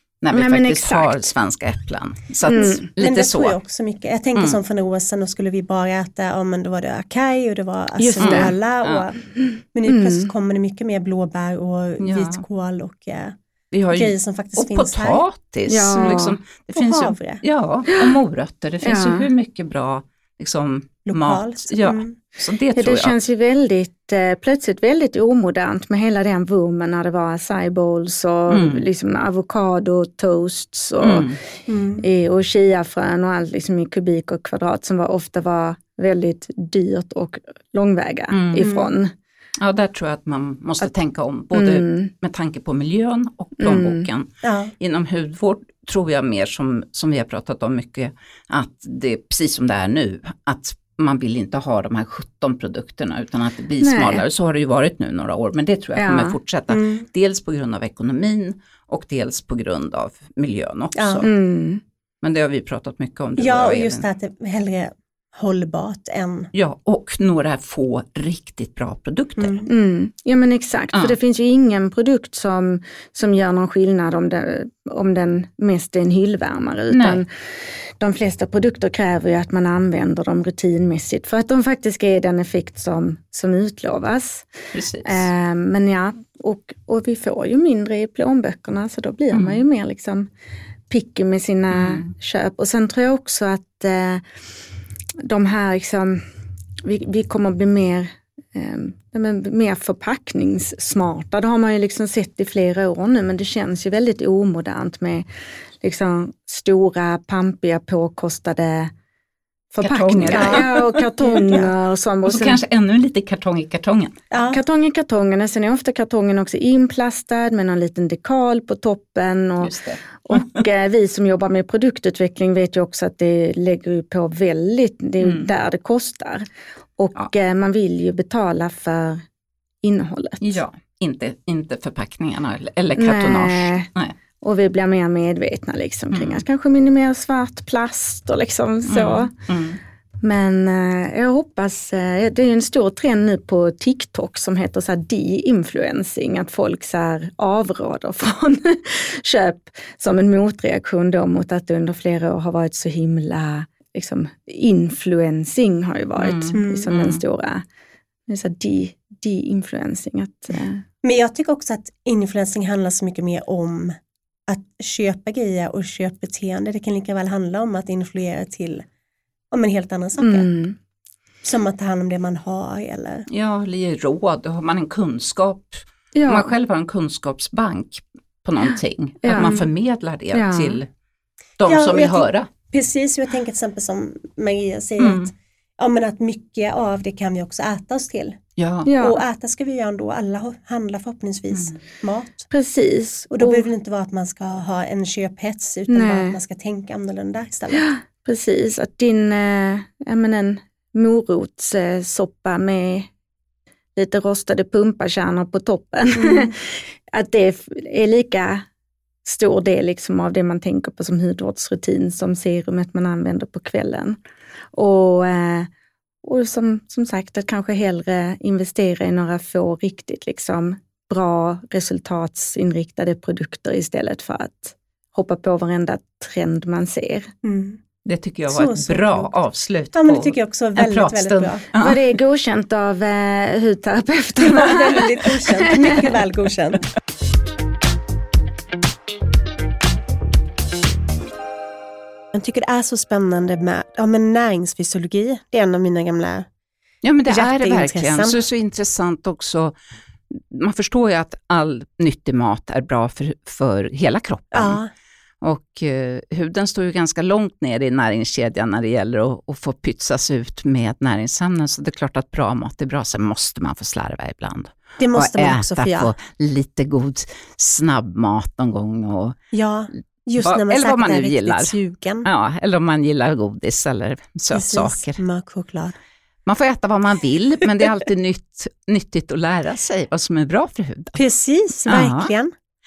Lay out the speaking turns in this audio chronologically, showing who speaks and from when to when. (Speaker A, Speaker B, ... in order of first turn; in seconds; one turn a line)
Speaker A: 0.2-3.6
Speaker B: 0.3-1.3
Speaker B: 2.5-2.9
Speaker C: 3.0-9.2
Speaker B: 8.0-8.6
Speaker A: 8.2-9.1
Speaker B: 9.5-10.3
Speaker C: 9.7-13.3
Speaker A: 12.0-12.4
Speaker A: 13.7-23.1
Speaker C: 13.9-15.2
Speaker B: 15.7-16.4
Speaker C: 16.0-16.2
Speaker C: 16.7-17.4
Speaker B: 17.9-18.2
Speaker B: 18.8-19.3
Speaker C: 21.1-22.2
Speaker B: 22.8-31.3
Speaker A: 28.5-28.8
Speaker A: 31.0-31.4
Speaker C: 31.7-32.1
Speaker B: 32.0-39.1
Speaker A: 38.3-38.7
Speaker C: 38.6-38.9
Speaker A: 39.6-61.3
Speaker B: 41.5-42.1
Speaker B: 43.6-44.1
Speaker C: 44.4-44.7
Speaker B: 53.8-54.2
Speaker B: 56.0-56.4
Speaker C: 56.7-57.0
Speaker C: 61.0-61.2
Speaker B: 61.2-61.8
Speaker A: 62.2-64.0
Speaker C: 63.4-66.5
Speaker A: 66.5-69.6
Speaker C: 69.4-69.7
Speaker B: 69.7-77.3
Speaker A: 76.9-77.2
Speaker B: 78.0-84.5
Speaker A: 84.7-85.3
Speaker B: 85.0-90.3
Speaker A: 89.3-89.6
Speaker B: 90.9-94.2
Speaker A: 91.7-92.1
Speaker B: 95.2-96.2
Speaker B: 96.8-105.2
Speaker B: 105.8-108.9
Speaker B: 109.7-112.6
Speaker A: 109.8-110.8
Speaker C: 110.3-111.7
Speaker A: 112.2-114.2
Speaker C: 114.3-114.6
Speaker B: 114.5-126.5
Speaker A: 119.6-120.6
Speaker A: 125.2-125.5
Speaker B: 127.0-129.2
Speaker B: 129.8-130.6
Speaker A: 130.4-134.2
Speaker B: 133.0-133.9
Speaker B: 134.4-139.3
Speaker A: 136.1-136.4
Speaker A: 138.8-139.8
Speaker B: 140.2-157.6
Speaker A: 156.2-157.2
Speaker C: 156.5-156.9
Speaker B: 158.3-160.8
Speaker C: 161.0-168.8
Speaker C: 169.5-170.5
Speaker B: 170.2-170.8
Speaker C: 171.4-173.3
Speaker A: 173.3-180.9
Speaker B: 176.1-176.5
Speaker B: 179.2-179.6
Speaker C: 179.4-179.7
Speaker B: 180.3-180.8
Speaker A: 181.6-182.5
Speaker C: 181.7-188.4
Speaker A: 185.0-185.3
Speaker A: 188.6-188.9
Speaker B: 188.8-189.2
Speaker C: 189.0-192.5
Speaker A: 191.5-191.8
Speaker B: 192.5-193.7
Speaker C: 193.3-197.9
Speaker B: 195.9-196.4
Speaker B: 197.7-203.1
Speaker B: 203.9-208.7
Speaker C: 206.2-206.5
Speaker B: 209.2-214.2
Speaker B: 214.7-215.7
Speaker B: 216.2-227.3
Speaker C: 227.4-227.8
Speaker A: 228.0-232.0
Speaker C: 228.5-229.3
Speaker C: 229.9-231.6
Speaker B: 231.8-236.1
Speaker C: 234.4-236.8
Speaker C: 242.3-246.5
Speaker A: 247.0-249.8
Speaker C: 247.2-248.4
Speaker A: 250.3-254.8
Speaker C: 254.5-254.9
Speaker A: 255.4-269.4
Speaker C: 265.0-266.1
Speaker C: 269.5-272.3
Speaker A: 270.4-275.2
Speaker C: 274.5-275.9
Speaker A: 276.4-281.2
Speaker C: 281.1-282.5
Speaker A: 281.9-282.3